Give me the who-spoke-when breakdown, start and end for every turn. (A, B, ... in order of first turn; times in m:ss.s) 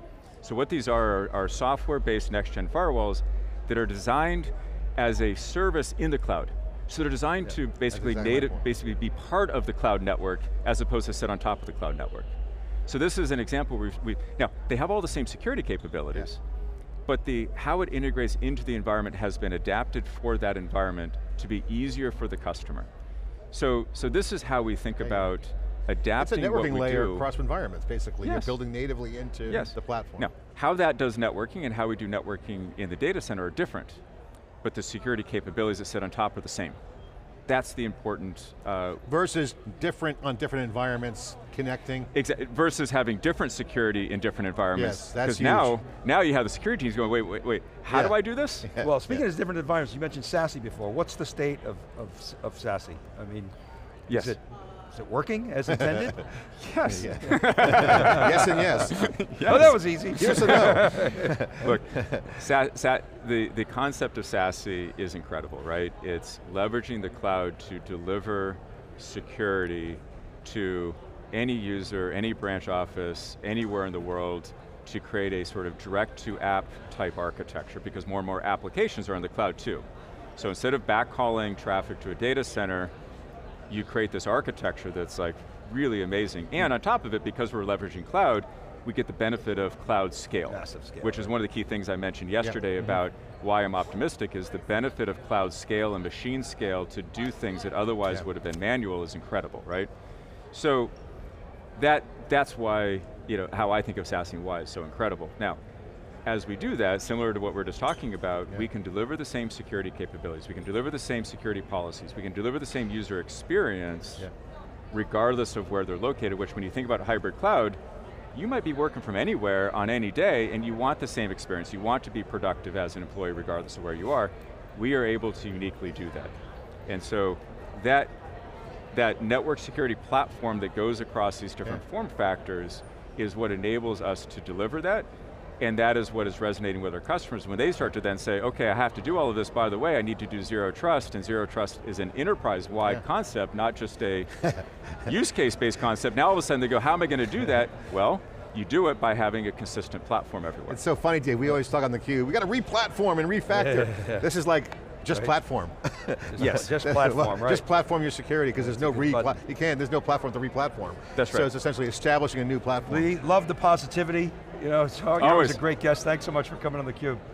0:00.4-0:12.3 A
0:07.4-0:08.6 B
0:12.9-0:16.4 A
0:17.1-0:22.9 A
0:23.5-0:27.2 A
0:25.0-0:25.3 B
0:26.2-0:30.3 B
0:28.2-0:28.6 A
0:29.5-0:34.0 A
0:34.6-0:36.8 A
0:37.5-0:39.0 A
0:39.1-0:42.1 B
0:42.1-0:48.7 A
0:44.7-0:45.7 B
0:47.9-0:49.2 B
0:48.8-0:53.5 C
0:54.1-0:54.4 A
0:54.1-0:56.3 C
0:56.6-1:01.0 A
0:56.9-0:59.1 B
0:57.8-0:58.2 C
0:59.4-1:01.3 C
1:00.2-1:02.2 B
1:01.6-1:19.9 A
1:20.4-1:22.9 A
1:23.7-1:39.9 A
1:30.4-1:31.3 C
1:40.5-1:40.9 A
1:41.8-1:45.6 A
1:46.2-1:54.3 A
1:54.9-1:57.8 A
1:58.3-2:06.3 A
2:06.9-2:08.1 A
2:08.9-2:15.1 A
2:15.6-2:24.5 A
2:25.0-2:30.8 A
2:30.7-2:43.2 B
2:33.5-2:34.2 C
2:36.3-2:37.6 C
2:38.6-2:39.3 C
2:41.1-2:41.5 A
2:42.9-2:47.2 C
2:45.2-2:45.6 A